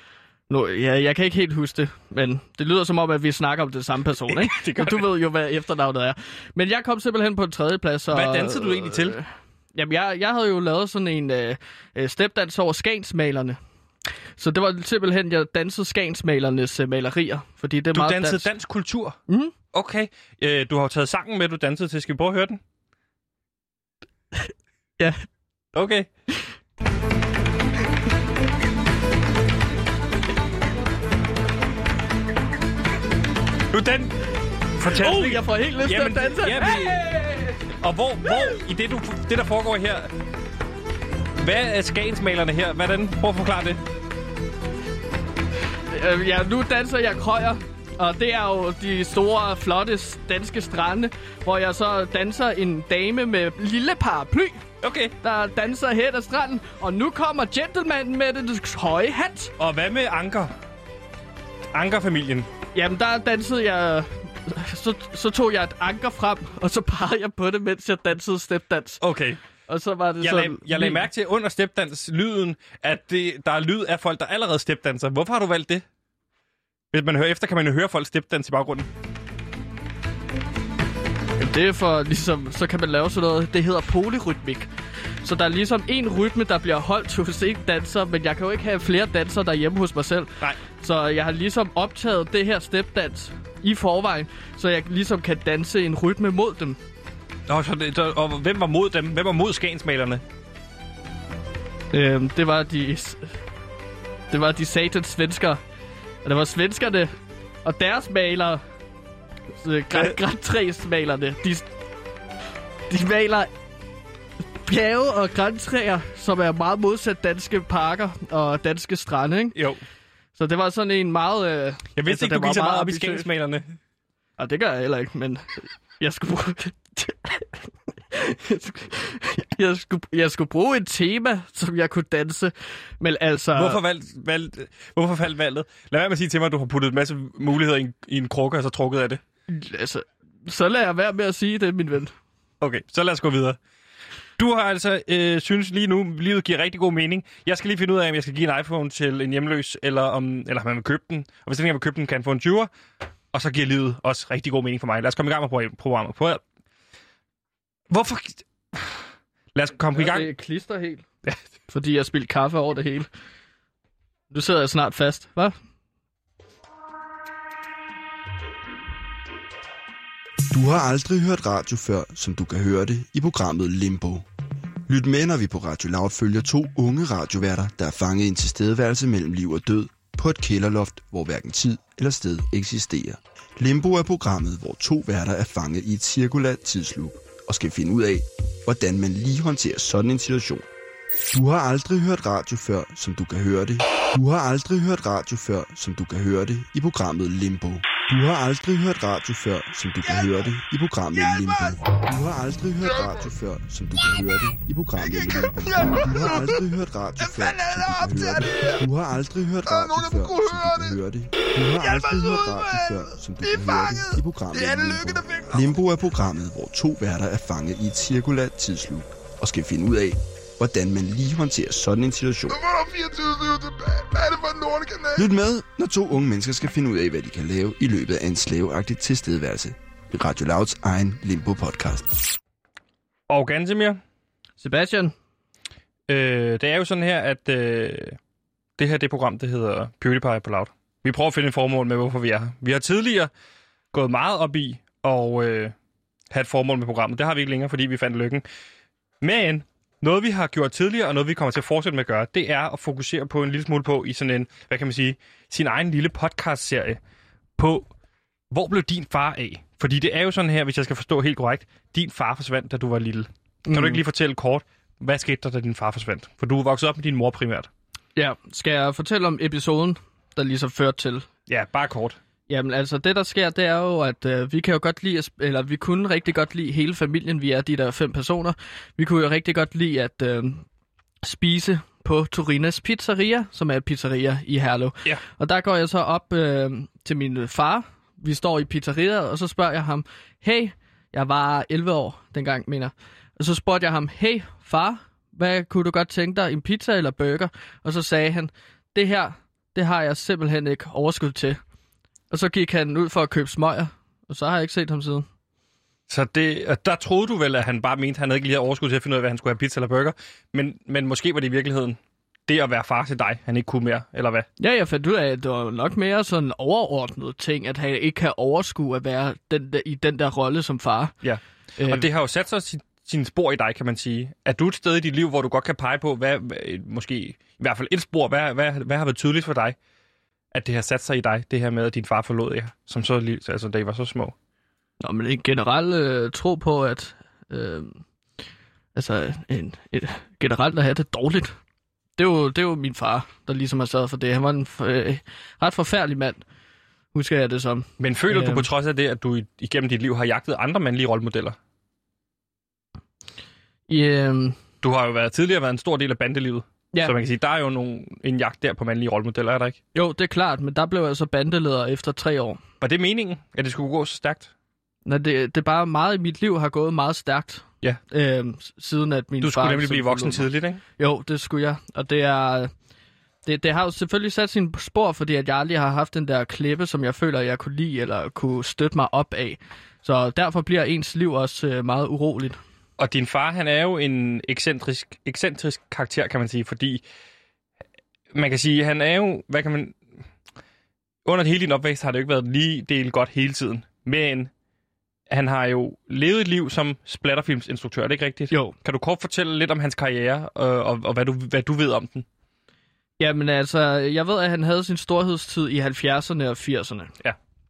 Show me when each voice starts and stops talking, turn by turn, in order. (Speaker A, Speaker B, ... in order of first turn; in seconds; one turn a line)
Speaker A: 0.5-13.6
Speaker B: 4.3-5.1
Speaker B: 8.1-9.2
Speaker A: 14.4-18.5
Speaker B: 17.9-19.2
Speaker B: 19.7-22.6
Speaker B: 25.7-26.1
Speaker B: 33.7-34.2
Speaker B: 34.8-37.0
Speaker A: 34.9-37.6
Speaker B: 37.8-40.1
Speaker B: 41.4-43.8
Speaker A: 45.9-54.6
Speaker B: 54.8-55.1
Speaker A: 55.2-59.5
Speaker B: 59.6-60.5
Speaker B: 61.7-62.5
Speaker A: 62.7-69.0
Speaker B: 69.0-69.4
Speaker A: 69.7-71.0
Speaker B: 70.2-75.8
Speaker B: 76.9-78.9
Speaker A: 81.4-84.7
Speaker A: 85.2-96.8
Speaker B: 97.5-100.2
Speaker A: 101.9-103.2
Speaker A: 104.3-105.6
Speaker A: 106.2-107.1
Speaker A: 107.6-108.6
Speaker A: 109.6-111.7
Speaker A: 112.9-113.5
Speaker A: 114.6-119.5
Speaker B: 119.5-119.8
Speaker A: 120.4-123.3
Speaker B: 122.0-123.8
Speaker A: 124.4-127.5
Speaker A: 128.1-133.8
Speaker B: 133.5-139.2
Speaker A: 139.5-142.1
Speaker B: 142.6-143.6
Speaker B: 144.4-152.7
Speaker B: 153.3-156.4
Speaker B: 157.9-159.0
Speaker B: 159.5-160.3
Speaker A: 159.9-161.0
Speaker A: 161.7-163.1
Speaker A: 164.3-165.5
Speaker C: 170.5-174.2
Speaker C: 174.9-190.7
Speaker C: 191.3-222.6
Speaker D: 200.1-200.5
Speaker D: 201.1-202.0
Speaker D: 202.8-203.3
Speaker D: 204.1-204.4
Speaker D: 205.0-206.6
Speaker D: 207.2-208.8
Speaker D: 209.7-211.0
Speaker D: 211.6-215.8
Speaker D: 222.5-225.3
Speaker C: 225.2-232.1
Speaker B: 233.3-234.0
Speaker A: 234.6-235.1
Speaker B: 236.1-238.2
Speaker B: 238.8-243.3
Speaker B: 243.9-245.7
Speaker B: 246.3-248.4
Speaker B: 249.2-257.0
Speaker B: 257.6-257.9
Speaker B: 258.5-267.7
Speaker A: 263.6-264.0
Speaker A: 268.1-271.2
Speaker B: 271.5-272.2
Speaker A: 272.5-280.6
Speaker A: 281.2-301.6
Speaker A: 302.3-305.2
Speaker B: 306.1-314.4
Speaker A: 314.6-321.1
Speaker B: 321.2-329.8
Speaker A: 321.8-322.1
Speaker B: 330.5-334.3
Speaker A: 335.0-337.9
Speaker A: 338.9-341.5
Speaker A: 342.2-346.4
Speaker A: 347.1-348.7
Speaker B: 348.0-351.6
Speaker A: 353.9-354.6
Speaker B: 354.8-359.8
Speaker A: 359.9-362.6
Speaker B: 362.8-364.5
Speaker A: 365.1-372.7
Speaker B: 369.4-370.8
Speaker A: 373.4-382.6
Speaker B: 383.0-387.0
Speaker B: 388.3-390.0
Speaker B: 391.2-394.5
Speaker B: 395.3-402.2
Speaker A: 403.2-407.1